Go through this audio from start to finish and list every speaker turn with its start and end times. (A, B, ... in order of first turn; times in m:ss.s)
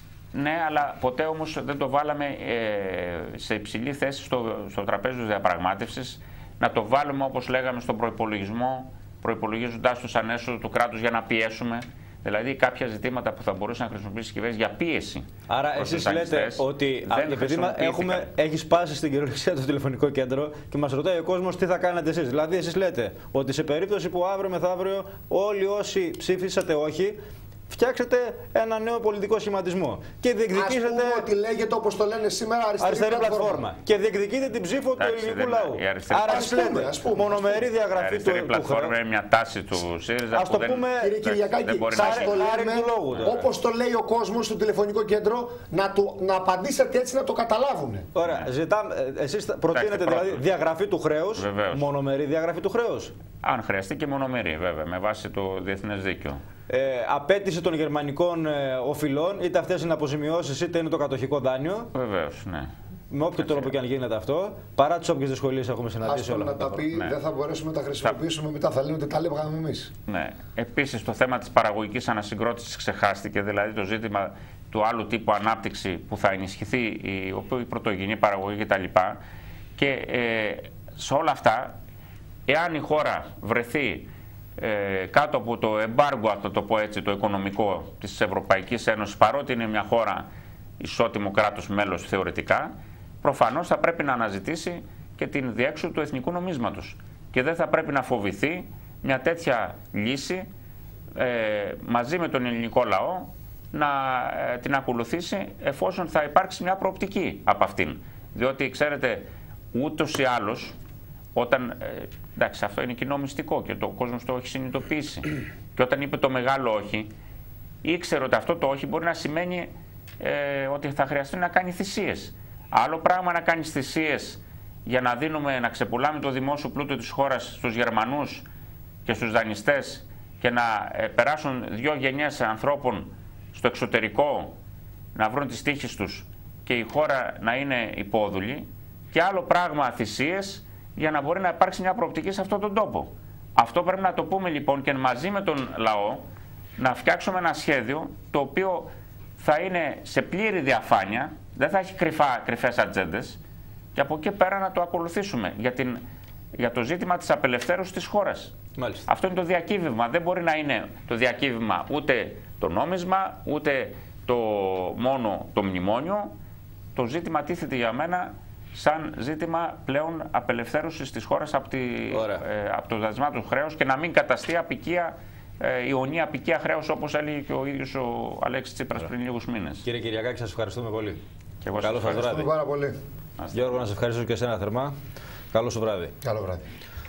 0:00.3-0:18.3 A
0:15.5-0:27.2 B
0:27.7-0:31.3 B
0:30.5-0:33.6 C
0:32.8-0:38.9 B
0:35.0-0:37.0 A
0:36.3-0:37.7 C
0:37.9-0:42.4 A
0:40.3-0:41.2 B
0:41.0-0:48.1 C
0:41.9-0:43.4 B
0:48.1-0:53.1 B
0:48.2-0:48.5 A
0:49.7-0:50.4 A
0:51.4-0:51.9 A
0:53.4-0:56.4 A
0:56.7-1:01.9 B
1:01.9-1:02.7 A
1:03.1-1:06.8 B
1:03.4-1:03.7 A
1:06.0-1:09.9 C
1:10.1-1:19.2 A
1:19.8-1:21.8 A
1:22.5-1:30.3 A
1:30.8-1:40.5 A
1:41.1-1:50.8 A
1:51.4-1:57.1 A
1:57.8-2:08.5 A
2:09.0-2:14.6 A
2:15.1-2:26.2 A
2:26.8-2:33.4 A
2:34.0-2:36.0 A
2:36.6-2:46.3 A
2:38.8-2:39.0 B
2:47.0-2:59.9 A
2:52.1-2:52.4 B
2:59.8-3:01.2 B
3:01.6-3:02.4 A
3:01.8-3:02.5 B
3:02.2-3:03.0 C
3:03.4-3:03.8 A
3:03.5-3:05.0 B
3:05.5-3:06.1 B
3:06.2-3:06.6 C